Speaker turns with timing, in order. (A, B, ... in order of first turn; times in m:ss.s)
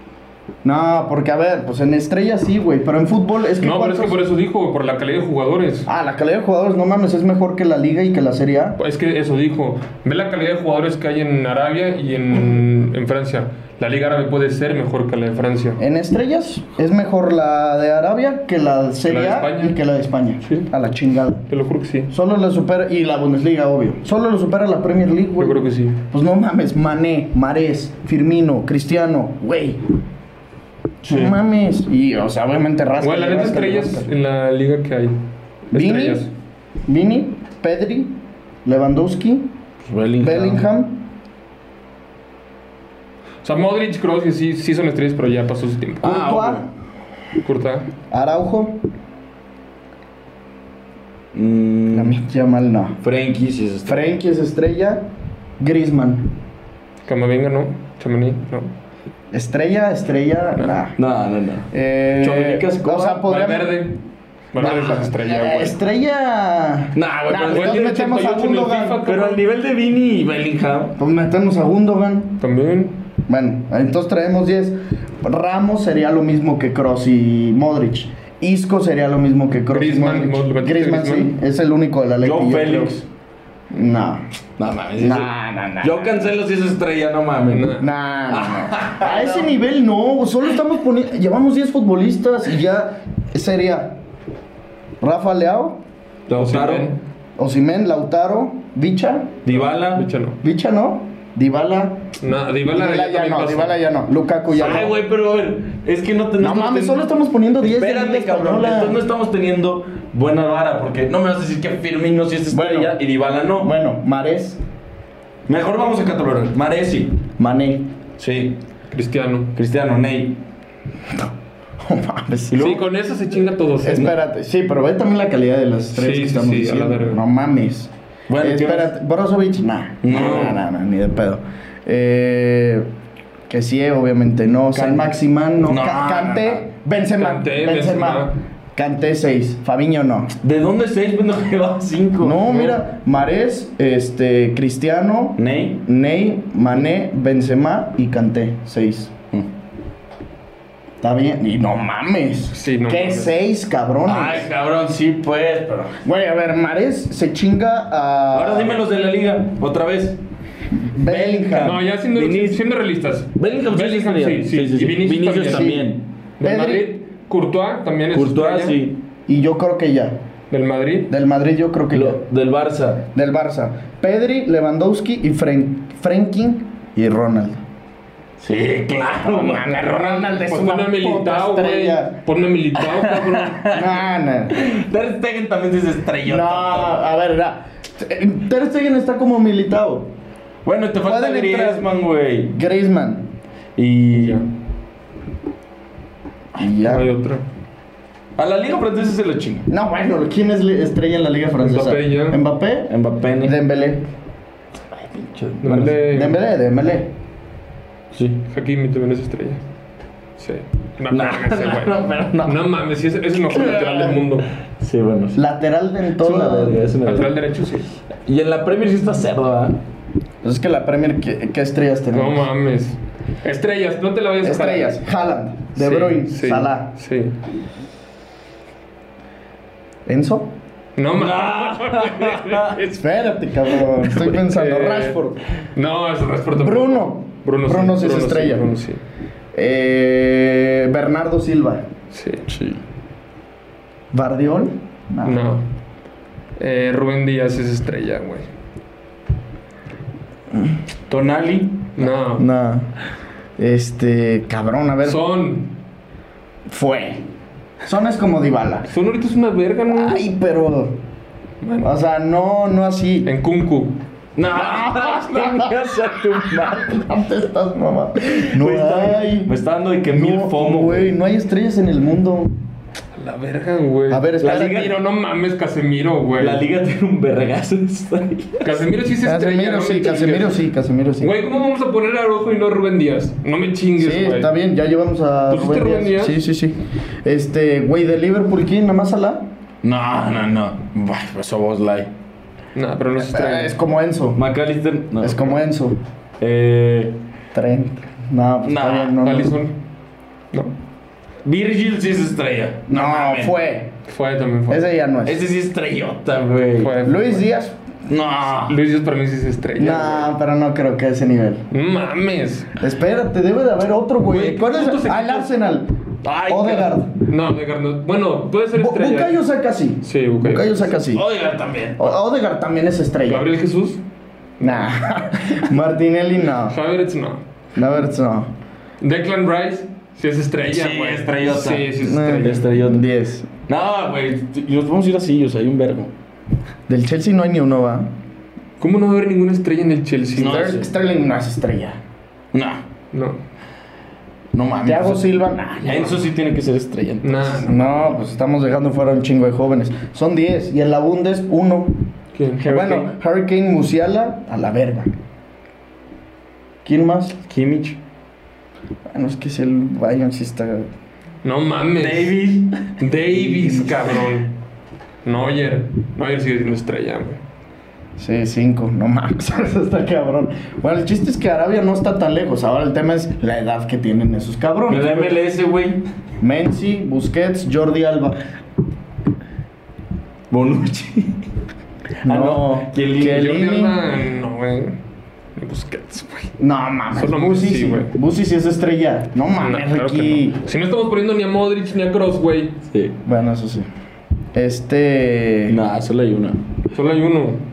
0:00.6-0:04.2 A
0:03.6-0:05.9 B
0:05.9-0:08.8 A
0:08.8-0:15.8 B
0:15.8-0:21.4 A
0:19.0-0:19.8 B
0:21.5-0:22.1 B
0:22.1-0:29.8 A
0:25.4-0:26.0 B
0:31.0-0:34.1 A
0:33.0-0:35.2 B
0:35.7-0:36.3 B
0:35.7-0:36.2 A
0:36.9-0:38.1 A
0:38.6-0:39.5 A
0:39.8-0:40.6 C
0:40.2-0:41.0 A
0:43.4-0:46.2 B
0:46.0-0:46.6 A
0:46.0-0:46.6 C
0:47.4-0:47.9 B
0:48.1-0:48.8 A
0:51.3-0:52.2 C
0:51.9-0:53.0 A
0:53.0-0:54.1 C
0:53.8-0:55.1 A
0:55.6-0:56.3 A
0:57.0-0:58.7 B
0:59.3-1:01.0 A
1:01.0-1:03.2 C
1:01.7-1:03.8 A
1:03.2-1:04.0 B
1:04.5-1:05.8 B
1:04.6-1:09.0 A
1:06.9-1:08.1 C
1:07.5-1:09.4 B
1:09.0-1:11.0 C
1:11.0-1:12.4 A
1:12.4-1:13.0 B
1:13.3-1:23.0 A
1:19.7-1:21.3 B
1:22.2-1:23.0 C
1:23.7-1:24.2 A
1:24.6-1:27.8 C
1:25.0-1:26.3 A
1:27.5-1:27.9 B
1:27.8-1:34.0 A
1:28.3-1:29.5 C
1:35.0-1:35.8 A
1:36.3-1:36.9 C
1:36.4-1:37.0 B
1:37.4-1:39.4 A
1:39.4-1:40.0 C
1:39.5-1:40.4 B
1:40.4-1:42.0 A
1:42.2-1:43.8 B
1:42.7-1:45.0 A
1:44.5-1:47.0 C
1:46.4-1:49.0 A
1:47.6-1:53.7 C
1:52.5-1:53.0 A
1:53.6-1:54.6 A
1:55.5-1:57.2 C
1:57.4-1:57.9 A
1:58.2-1:58.6 C
1:58.9-1:59.5 B
1:59.5-2:00.4 C
2:01.1-2:02.8 A
2:02.5-2:02.8 C
2:02.6-2:04.1 B
2:03.8-2:12.9 A
2:05.9-2:07.2 B
2:08.3-2:08.9 C
2:10.0-2:10.6 C
2:13.5-2:20.3 A
2:14.7-2:15.1 C
2:15.6-2:16.6 C
2:17.2-2:18.4 B
2:20.4-2:22.4 C
2:22.2-2:29.1 A
2:22.4-2:22.8 B
2:25.4-2:25.8 C
2:31.0-2:34.5 A
2:32.5-2:33.3 B
2:34.0-2:36.0 C
2:36.0-2:38.8 A
2:38.3-2:40.2 C
2:40.8-2:41.8 A
2:41.0-2:42.6 C
2:41.6-2:45.8 B
2:43.4-2:46.0 C
2:45.5-2:45.9 A
2:46.4-2:48.8 B
2:46.4-2:46.9 A
2:48.1-2:49.0 C
2:49.3-2:50.2 A
2:50.5-2:51.1 B
2:51.1-2:52.2 A
2:51.9-2:53.1 C
2:53.1-2:57.6 A
2:58.4-3:00.2 C
2:59.1-3:02.2 A
2:59.9-3:03.6 B
3:02.8-3:07.0 C
3:03.7-3:04.7 A
3:06.2-3:10.1 A
3:10.6-3:12.5 C
3:11.0-3:11.9 A
3:12.5-3:13.3 A
3:13.8-3:14.4 C
3:14.2-3:14.4 B
3:16.5-3:17.1 A
3:16.8-3:17.4 B
3:18.4-3:19.6 C
3:19.7-3:24.1 A
3:21.6-3:22.4 B
3:22.9-3:23.6 C
3:24.9-3:26.0 C
3:25.6-3:26.4 B
3:26.1-3:27.1 A
3:28.1-3:28.4 C
3:28.5-3:29.6 B
3:30.4-3:34.5 B
3:31.1-3:32.6 C
3:33.6-3:34.2 C
3:34.8-3:35.4 C
3:35.3-3:36.8 A
3:36.2-3:37.4 C
3:37.0-3:37.9 B
3:38.2-3:39.8 C
3:40.4-3:42.5 A
3:42.1-3:45.0 B
3:44.4-3:46.9 A
3:45.8-3:47.4 B
3:50.0-3:50.5 A
3:51.0-3:53.0 B
3:51.1-3:52.8 C
3:53.0-3:55.4 A
3:54.1-3:55.2 B
3:55.7-3:59.0 B
3:56.6-3:58.7 A
3:59.5-4:01.8 A
4:02.1-4:02.4 B
4:02.5-4:02.8 C
4:04.1-4:05.4 A
4:05.2-4:05.6 B
4:06.6-4:08.5 B
4:11.1-4:11.9 C
4:12.0-4:12.4 B
4:12.4-4:12.9 A
4:13.6-4:15.2 A
4:15.0-4:15.7 B
4:16.7-4:17.2 A
4:17.8-4:18.9 A
4:18.9-4:20.2 B
4:19.9-4:21.0 A
4:21.6-4:21.9 B
4:21.8-4:23.3 A
4:23.2-4:24.0 B
4:24.4-4:27.0 C
4:24.5-4:29.5 A
4:28.3-4:31.1 C
4:30.1-4:32.5 A
4:33.2-4:36.6 B
4:34.1-4:34.9 A
4:34.4-4:35.0 C
4:36.4-4:38.8 C
4:38.6-4:40.6 B
4:39.2-4:41.3 A
4:41.2-4:44.5 B
4:44.0-4:49.4 A
4:45.5-4:46.4 B
4:49.8-4:52.1 C
4:52.7-4:53.7 B
4:53.2-4:54.4 A
4:54.4-4:55.6 C
4:55.2-4:56.0 A
4:56.4-4:57.2 C
4:57.5-4:59.6 A
4:58.6-4:59.2 C
4:59.2-4:59.7 B
5:01.4-5:03.6 C
5:02.9-5:03.9 A
5:04.0-5:04.9 B
5:04.7-5:05.4 A
5:05.2-5:07.0 C
5:06.8-5:07.4 B
5:07.0-5:07.8 A
5:08.0-5:08.8 C
5:08.6-5:10.3 B
5:09.8-5:11.6 A
5:11.7-5:12.7 B
5:12.8-5:15.9 A
5:14.2-5:15.5 B
5:16.2-5:17.0 C
5:16.5-5:17.1 A
5:17.3-5:19.4 B
5:18.7-5:21.2 A
5:20.0-5:20.9 B
5:20.9-5:22.2 C
5:22.0-5:23.5 A
5:23.2-5:24.0 B
5:24.6-5:24.8 B
5:24.6-5:26.8 A
5:26.7-5:27.4 B
5:27.8-5:28.5 A
5:29.0-5:32.7 B
5:30.7-5:33.0 C
5:32.0-5:33.5 A
5:33.7-5:36.1 C
5:36.9-5:38.1 A
5:38.8-5:40.8 B
5:40.4-5:40.9 C
5:40.4-5:42.0 A
5:42.5-5:42.8 C
5:43.1-5:43.4 B
5:44.5-5:47.7 C
5:44.8-5:46.3 A
5:47.2-5:48.2 B
5:47.6-5:52.0 A
5:52.3-5:52.7 B
5:52.6-5:55.1 A
5:52.6-5:53.1 C
5:56.8-5:57.4 A
5:57.5-5:58.0 C
5:59.1-6:00.9 A
6:01.4-6:02.4 B
6:02.0-6:04.3 C
6:03.0-6:04.5 B
6:05.2-6:07.4 B
6:08.2-6:15.4 A
6:14.9-6:16.0 C
6:16.4-6:18.4 A
6:20.5-6:21.4 C
6:22.2-6:24.0 A
6:22.2-6:23.5 C
6:23.3-6:25.0 B
6:25.6-6:26.5 B
6:26.6-6:30.6 A
6:27.1-6:28.1 B
6:29.5-6:32.8 B
6:32.9-6:33.2 C
6:33.2-6:33.9 A
6:34.5-6:35.8 A
6:35.7-6:36.6 C
6:36.9-6:37.6 B